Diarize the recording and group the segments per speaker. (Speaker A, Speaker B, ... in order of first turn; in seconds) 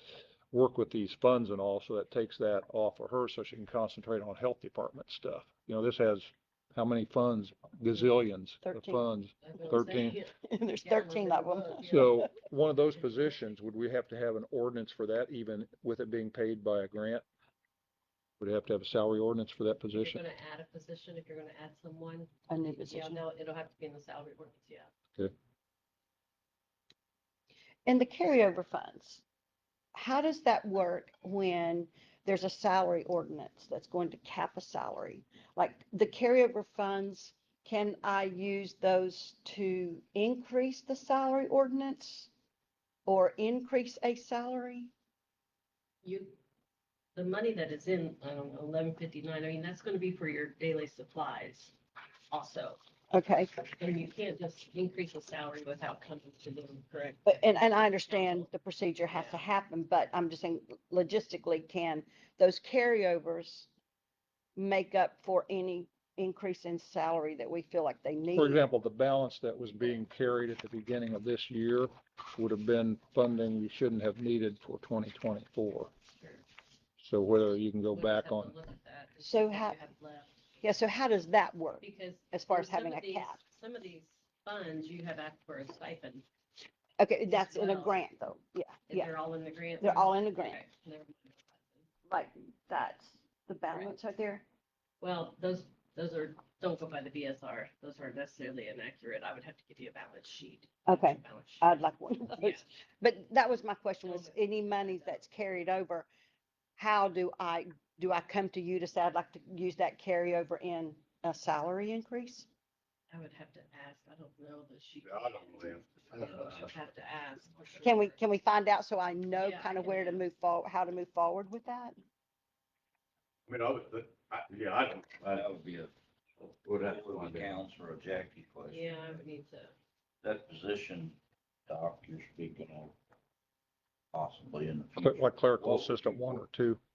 Speaker A: 0.5-10.2, 11.9-17.2, 18.4-20.2, 68.3-75.9, 77.0-78.5, 135.0-136.8
Speaker B: 8.6-9.0, 10.5-12.3, 22.5-23.2, 27.9-29.2, 29.9-42.3, 43.1-44.9, 53.1-53.5, 57.3-63.7, 64.6-68.6, 79.2-79.8, 80.6-83.4, 87.0-89.1, 89.8-90.6, 92.1-94.4, 100.9-106.1, 106.8-112.5, 117.8-122.0
Speaker C: 9.4-12.3, 19.9-24.9, 46.0-46.4, 47.1-51.7, 52.3-52.8, 53.6-58.5, 59.1-59.4, 77.9-80.5, 81.8-86.2, 87.3-87.9, 88.9-91.9, 95.0-102.7, 104.0-105.3, 113.1-118.2, 119.4-120.2, 128.7-129.7
Speaker D: 115.0-116.3, 123.5-125.5, 126.6-127.6
Speaker E: 125.3-125.9, 126.9-129.2, 130.2-133.0, 134.1-136.4